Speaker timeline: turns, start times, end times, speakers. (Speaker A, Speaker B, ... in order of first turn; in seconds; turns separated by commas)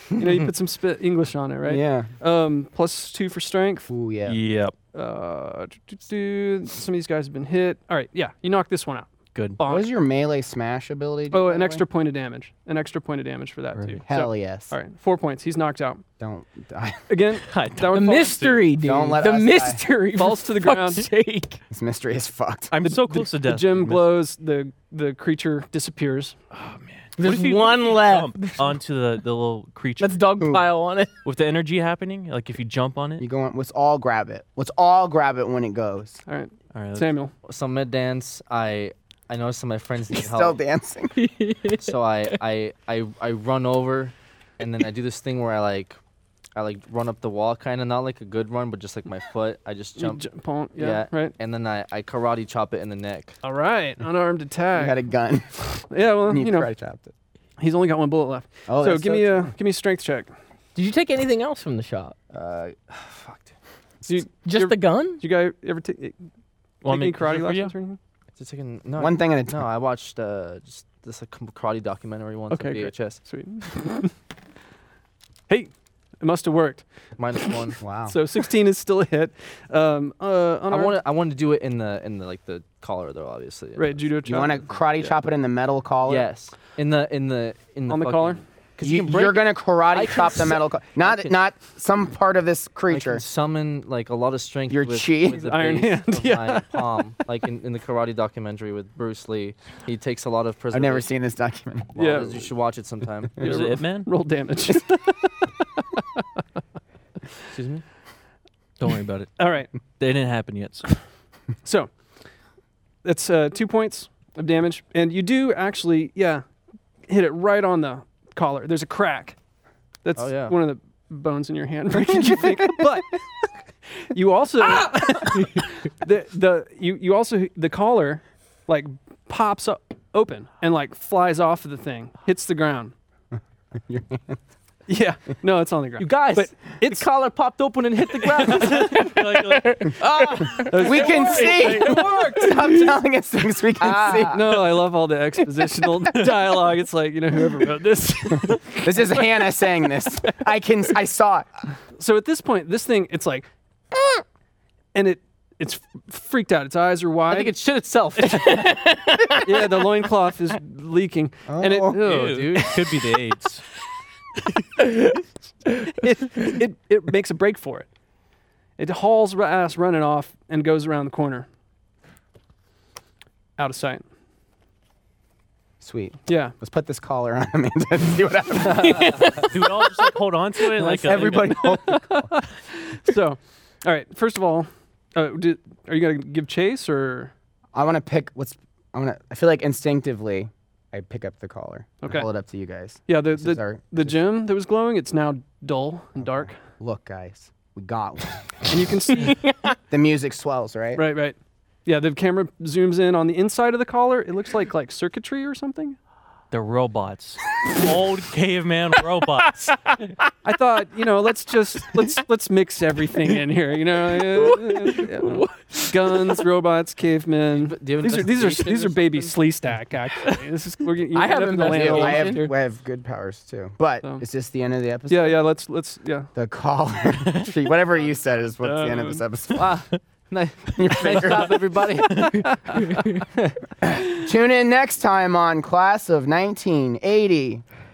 Speaker A: 0.2-3.9, Speaker B: 1.7-2.1, Speaker B: 3.9-4.4, Speaker C: 4.3-4.8, Speaker A: 4.9-9.9, Speaker C: 9.3-9.6, Speaker B: 9.7-11.8, Speaker A: 11.3-16.0, Speaker B: 14.1-14.7, Speaker B: 16.2-17.1, Speaker A: 17.1-18.4, Speaker C: 17.5-18.7, Speaker D: 17.9-21.6, Speaker B: 18.8-19.8, Speaker A: 20.1-21.1, Speaker B: 21.7-22.7, Speaker C: 22.7-24.2, Speaker A: 22.9-26.4, Speaker C: 26.5-30.2, Speaker D: 27.2-28.7, Speaker D: 30.0-31.1, Speaker C: 31.2-33.3, Speaker B: 33.2-36.2, Speaker A: 36.3-37.3, Speaker C: 36.7-37.1, Speaker E: 37.5-40.6, Speaker B: 40.1-41.2, Speaker D: 41.2-42.0, Speaker E: 41.7-46.0, Speaker E: 46.5-50.2, Speaker A: 50.0-51.3, Speaker E: 50.8-53.4, Speaker A: 53.4-55.0, Speaker B: 54.7-57.1, Speaker A: 55.9-56.7, Speaker A: 57.6-60.3, Speaker B: 58.7-59.5, Speaker D: 60.8-62.1, Speaker E: 62.3-63.5, Speaker A: 64.1-66.2, Speaker D: 64.4-65.2, Speaker C: 66.8-67.7, Speaker A: 66.8-68.0, Speaker E: 68.4-73.2, Speaker B: 69.0-69.6, Speaker A: 72.5-74.1, Speaker A: 75.5-81.0, Speaker E: 77.2-77.8, Speaker B: 77.8-78.2, Speaker E: 80.7-84.4, Speaker A: 83.8-84.7, Speaker B: 84.2-86.2, Speaker E: 86.0-91.4, Speaker A: 87.9-88.4, Speaker B: 88.8-93.2, Speaker E: 92.9-101.1, Speaker B: 94.7-95.5, Speaker A: 95.4-96.9, Speaker B: 100.7-102.2, Speaker E: 102.0-103.5, Speaker A: 102.0-102.4, Speaker A: 103.4-106.2, Speaker C: 103.4-104.1, Speaker E: 107.5-107.8, Speaker C: 108.8-111.0, Speaker A: 109.4-109.7, Speaker A: 111.6-111.9, Speaker A: 113.0-116.5, Speaker A: 117.1-119.4, Speaker A: 120.0-123.2, Speaker E: 120.2-120.6, Speaker A: 124.1-132.9, Speaker B: 133.9-134.4, Speaker A: 134.9-137.1, Speaker E: 136.0-139.1, Speaker C: 138.4-140.0, Speaker A: 138.4-138.9, Speaker D: 138.9-142.5, Speaker E: 140.0-142.4, Speaker A: 140.5-142.8, Speaker B: 140.8-144.6, Speaker C: 140.8-142.5, Speaker D: 143.9-144.3, Speaker A: 144.3-150.4, Speaker C: 146.2-146.5, Speaker B: 148.8-151.5, Speaker A: 152.0-153.5, Speaker A: 154.9-157.5, Speaker E: 157.3-158.6, Speaker A: 158.2-158.6, Speaker D: 158.4-159.7, Speaker A: 159.4-163.0, Speaker B: 161.5-162.0, Speaker E: 161.9-162.8, Speaker C: 162.1-163.6, Speaker A: 165.9-167.9, Speaker A: 168.8-171.5, Speaker A: 173.6-174.0, Speaker B: 175.8-179.5, Speaker A: 176.3-176.6, Speaker E: 178.7-179.2, Speaker D: 178.8-179.4, Speaker C: 179.4-181.7, Speaker B: 180.8-182.3, Speaker E: 180.8-181.4, Speaker A: 181.7-187.3, Speaker B: 187.7-194.2, Speaker A: 192.0-192.3, Speaker A: 193.1-196.6, Speaker B: 196.2-198.9, Speaker A: 198.7-199.5, Speaker D: 199.2-199.7, Speaker B: 199.9-201.1, Speaker A: 201.0-206.0, Speaker C: 206.5-209.7, Speaker D: 209.6-210.2, Speaker A: 210.4-222.6, Speaker D: 214.1-216.4, Speaker E: 217.6-219.4, Speaker D: 221.1-222.5, Speaker B: 221.6-225.4, Speaker A: 225.1-226.3, Speaker B: 226.3-229.7, Speaker A: 228.6-229.2, Speaker E: 229.5-232.5, Speaker B: 230.8-231.7, Speaker C: 232.0-232.5, Speaker A: 232.5-233.2, Speaker B: 233.8-237.6